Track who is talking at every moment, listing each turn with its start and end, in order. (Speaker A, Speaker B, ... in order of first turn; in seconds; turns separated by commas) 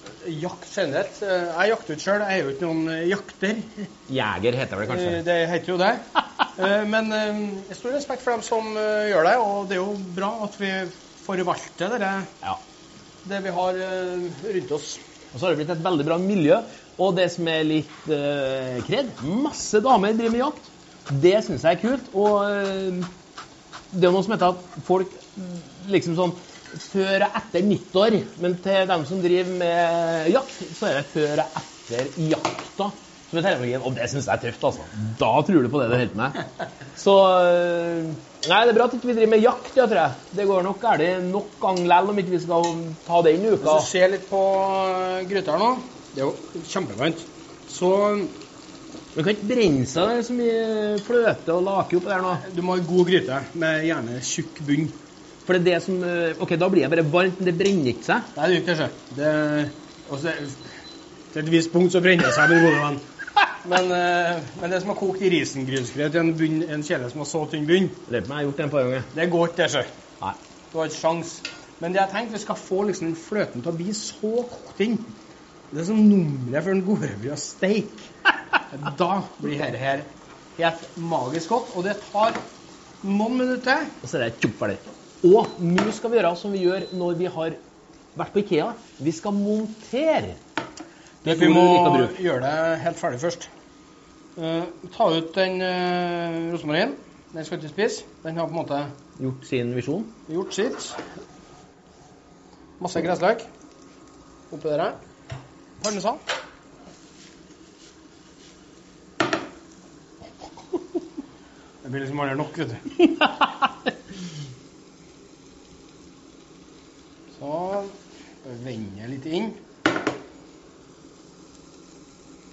Speaker A: 0.2-3.9, Speaker B: 4.1-5.2, Speaker A: 4.8-12.3, Speaker A: 13.2-15.0, Speaker B: 15.3-23.1, Speaker B: 23.9-43.9, Speaker A: 43.6-48.3, Speaker B: 49.1-52.4, Speaker A: 52.3-54.9, Speaker B: 55.4-58.3, Speaker A: 58.3-60.7, Speaker A: 61.3-63.0, Speaker A: 63.6-68.0, Speaker B: 68.1-69.1, Speaker A: 69.1-69.8, Speaker A: 70.7-75.1, Speaker A: 75.7-78.1, Speaker A: 78.7-82.4, Speaker A: 83.0-84.0, Speaker B: 84.0-87.6, Speaker B: 88.1-90.4, Speaker A: 91.2-93.5, Speaker B: 91.2-92.2, Speaker A: 94.3-98.9, Speaker B: 99.2-100.1, Speaker A: 100.3-101.0, Speaker A: 102.8-103.4, Speaker A: 104.5-105.0, Speaker A: 105.8-106.2, Speaker A: 111.8-112.9, Speaker A: 117.3-119.5